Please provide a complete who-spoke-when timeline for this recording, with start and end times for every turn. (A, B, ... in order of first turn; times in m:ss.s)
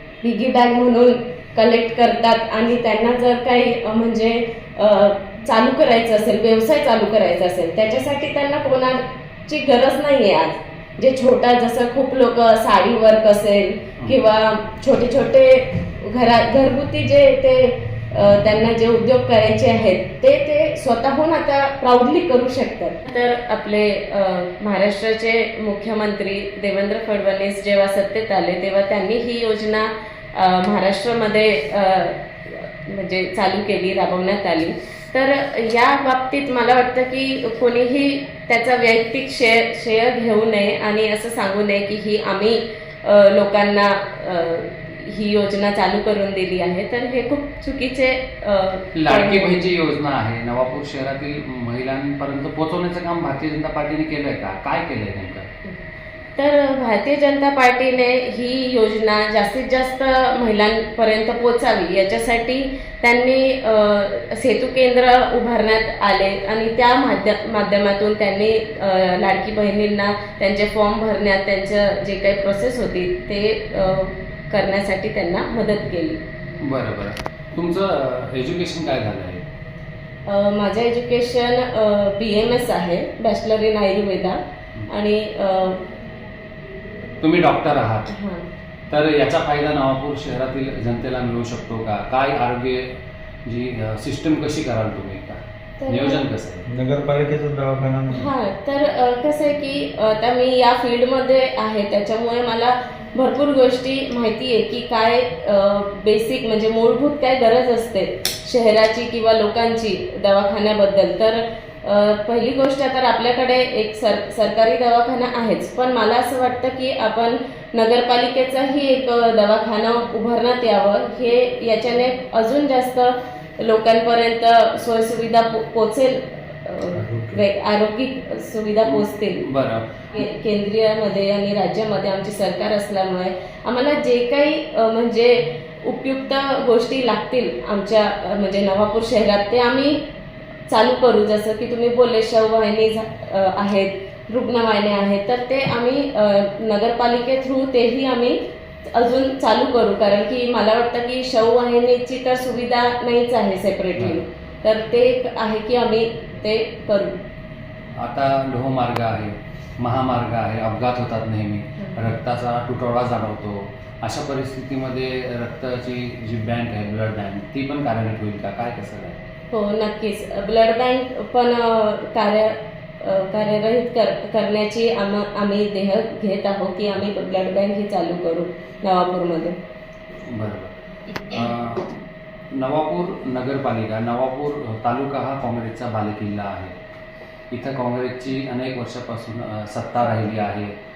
0:00.2-0:49.5 A
0:48.9-0:55.5 B
0:56.4-1:16.2 A
1:16.6-1:19.4 B
1:20.2-1:25.8 A
1:27.2-1:28.1 B
1:28.1-1:28.5 A
1:28.9-1:32.9 B
1:33.4-1:36.7 B
1:35.8-1:36.2 A
1:36.7-1:38.3 C
1:38.1-2:09.4 A
2:06.9-2:07.4 C
2:08.8-2:10.0 B
2:10.1-2:20.0 A
2:20.7-2:37.2 A
2:34.0-2:34.2 B
2:38.0-2:49.2 B
2:49.5-2:59.6 A
3:00.3-3:02.0 B
3:02.5-3:06.7 B
3:07.5-3:10.7 B